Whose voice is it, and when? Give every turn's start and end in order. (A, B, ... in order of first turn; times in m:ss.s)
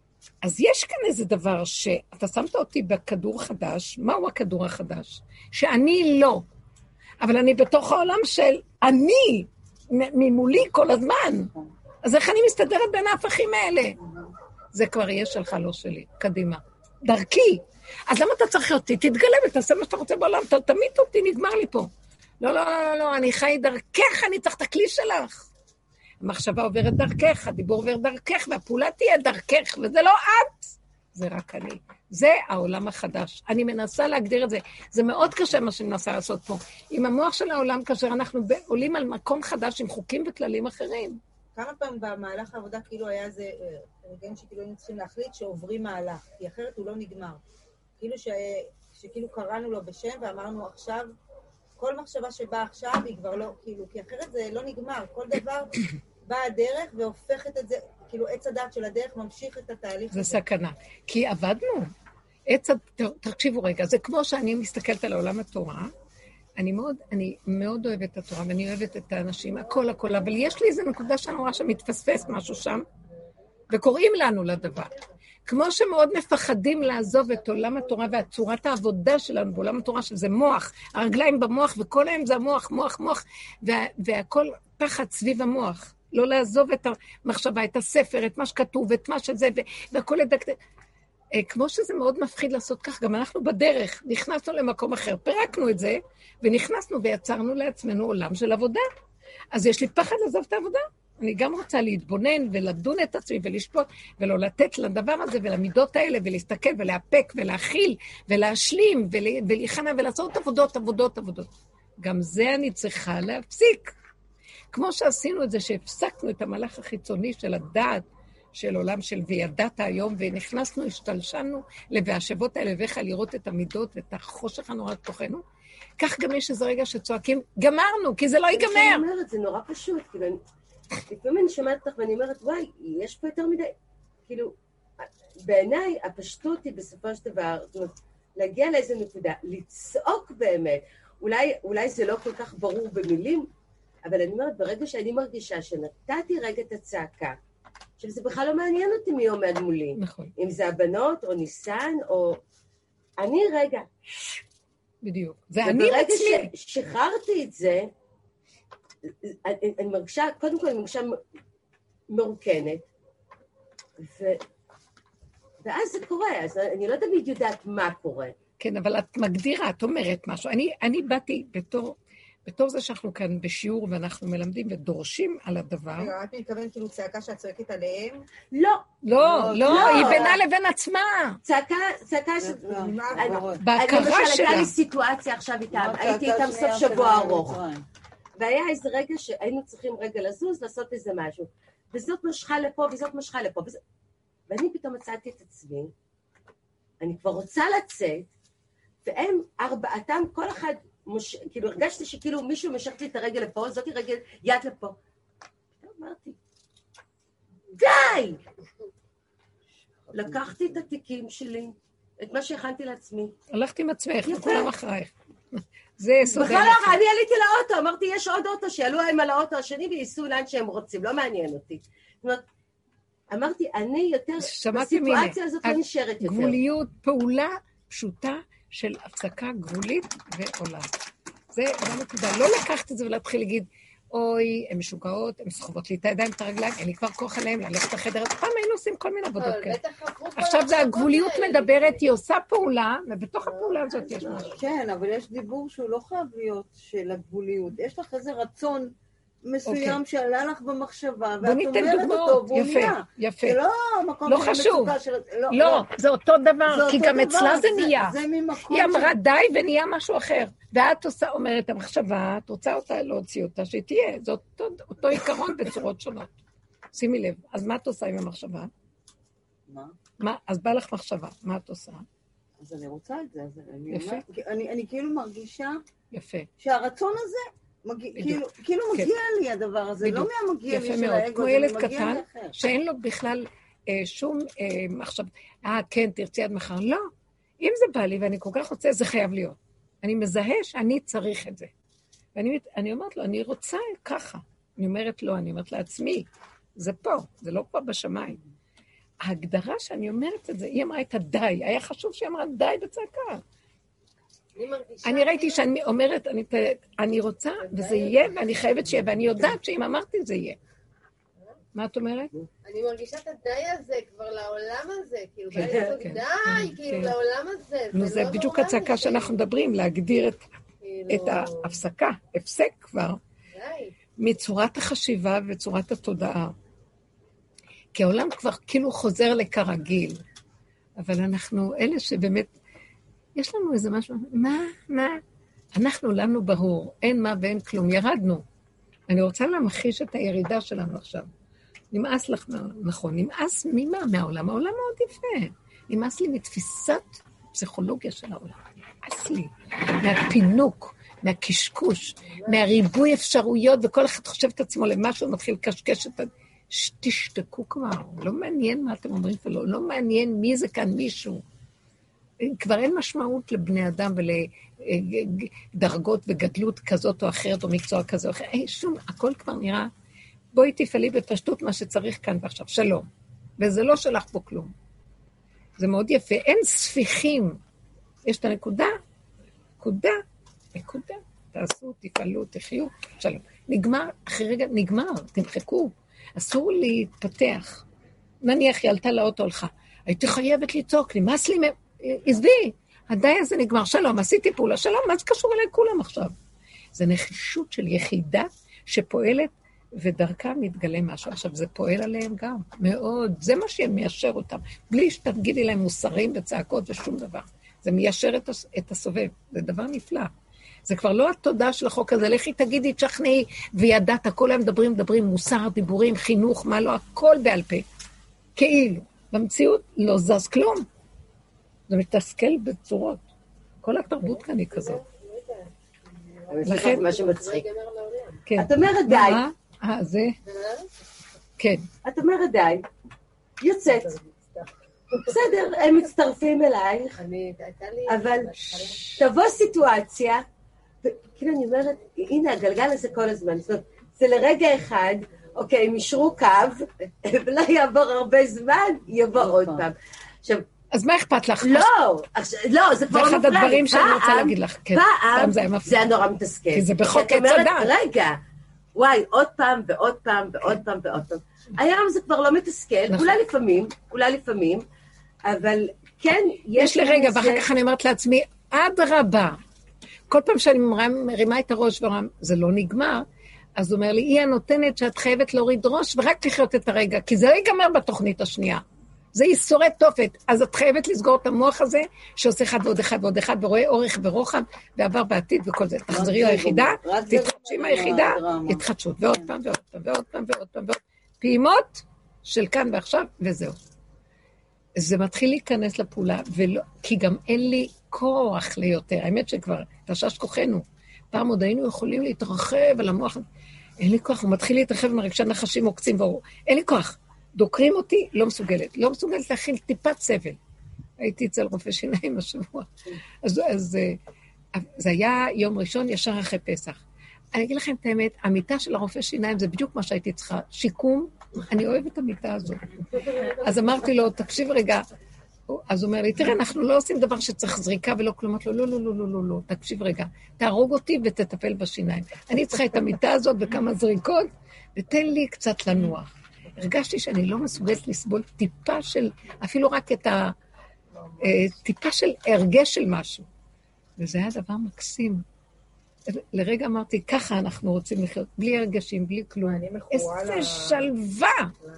0:00.4-0:06.4 A
0:07.2-0:11.5 A
0:12.0-0:14.0 A
0:14.7-0:21.9 A
0:22.4-0:25.5 A
0:26.2-0:41.2 A
0:41.6-0:47.4 B
0:48.0-0:51.1 B
0:51.8-1:00.4 B
1:00.1-1:01.9 A
1:02.5-1:05.9 A
1:06.6-1:12.8 A
1:13.7-1:30.6 A
1:31.3-1:38.9 A
1:39.5-1:53.9 A
1:54.7-2:05.4 A
2:06.0-2:09.1 A
2:08.5-2:10.4 C
2:11.1-2:13.7 C
2:14.3-2:14.6 C
2:15.4-2:23.5 C
2:24.0-2:27.4 C
2:28.0-2:32.4 C
2:30.0-2:30.3 A
2:33.2-2:33.9 C
2:35.0-2:36.5 A
2:35.6-2:37.9 C
2:39.2-2:41.2 C
2:42.1-2:42.9 C
2:44.0-2:44.4 C
2:45.6-2:48.3 C
2:48.6-2:56.1 A
2:56.0-2:58.2 B
2:58.5-2:58.9 C
2:59.0-3:01.4 A
2:59.2-3:00.2 D
2:59.6-3:00.4 C
3:01.4-3:07.6 C
3:02.5-3:03.6 D
3:02.7-3:03.4 B
3:03.6-3:04.7 A
3:05.7-3:07.8 D
3:08.4-3:13.8 C
3:14.5-3:15.9 C
3:17.0-3:18.3 C
3:19.0-3:25.0 C
3:25.8-3:26.4 C
3:27.8-3:28.4 C
3:30.1-3:33.4 C
3:30.1-3:30.6 D
3:33.5-3:37.0 A
3:34.2-3:34.7 C
3:36.2-3:42.4 C
3:43.3-3:46.6 C
3:44.4-3:50.9 A
3:51.5-3:59.8 A
3:59.4-4:02.0 E
4:00.4-4:04.6 A
4:04.1-4:15.9 D
4:09.7-4:10.0 A
4:11.4-4:13.6 A
4:14.2-4:15.0 A
4:15.5-4:18.2 A
4:16.7-4:19.1 D
4:18.7-4:26.3 A
4:26.9-4:28.7 A
4:29.7-4:30.0 D
4:30.2-4:32.1 A
4:32.6-4:35.8 D
4:33.9-4:34.2 A
4:36.1-4:36.5 A
4:36.6-4:42.6 D
4:38.1-4:38.4 A
4:40.0-4:47.1 A
4:47.6-4:51.7 A
4:52.4-4:58.4 A
4:59.2-5:03.4 A
5:04.6-5:05.7 E
5:05.0-5:10.6 A
5:07.8-5:08.1 E
5:11.8-5:12.3 A
5:12.6-5:19.4 E
5:15.5-5:17.2 A
5:15.6-5:16.2 C
5:17.9-5:20.4 A
5:20.8-5:21.8 E
5:21.1-5:23.2 A
5:23.5-5:23.9 E
5:24.2-5:26.6 A
5:28.0-5:30.2 A
5:31.0-5:32.5 A
5:33.4-5:35.2 A
5:35.8-5:38.4 A
5:39.1-5:41.3 A
5:41.9-6:01.4 A
6:02.4-6:09.9 A
6:10.5-6:13.1 A
6:13.6-6:14.7 A
6:15.8-6:17.6 A
6:18.2-6:19.0 A
6:19.8-6:20.2 A
6:20.8-6:27.8 A
6:28.4-6:36.3 A
6:36.9-6:50.3 A
6:50.9-6:57.9 A
6:58.6-7:00.9 A
7:01.9-7:03.2 A
7:03.8-7:05.0 A
7:04.3-7:08.5 E
7:06.5-7:07.7 C
7:06.6-7:07.1 A
7:08.5-7:10.4 A
7:08.6-7:09.4 C
7:10.4-7:10.9 E
7:11.6-7:11.9 A
7:12.0-7:12.9 C
7:13.6-7:14.2 C
7:14.3-7:14.6 B
7:15.1-7:17.2 C
7:17.2-7:19.1 E
7:18.1-7:18.6 C
7:18.7-7:19.2 A
7:19.1-7:20.4 C
7:21.0-7:30.6 C
7:29.4-7:29.8 D
7:30.9-7:31.9 A
7:31.6-7:38.4 C
7:33.1-7:36.1 A
7:36.7-7:37.9 A
7:39.0-7:44.8 C
7:43.1-7:43.4 A
7:45.5-7:47.7 C
7:46.8-7:49.6 A
7:50.3-7:58.8 A
7:59.3-8:13.8 A
8:06.1-8:09.4 D
8:15.0-8:23.4 A
8:24.0-8:30.6 A
8:31.2-8:32.9 A
8:33.4-8:34.2 A
8:34.7-8:37.0 A
8:37.5-8:45.1 A
8:45.7-9:00.6 A
9:01.4-9:03.5 A
9:04.2-9:05.4 A
9:06.3-9:11.7 A
9:09.6-9:11.1 B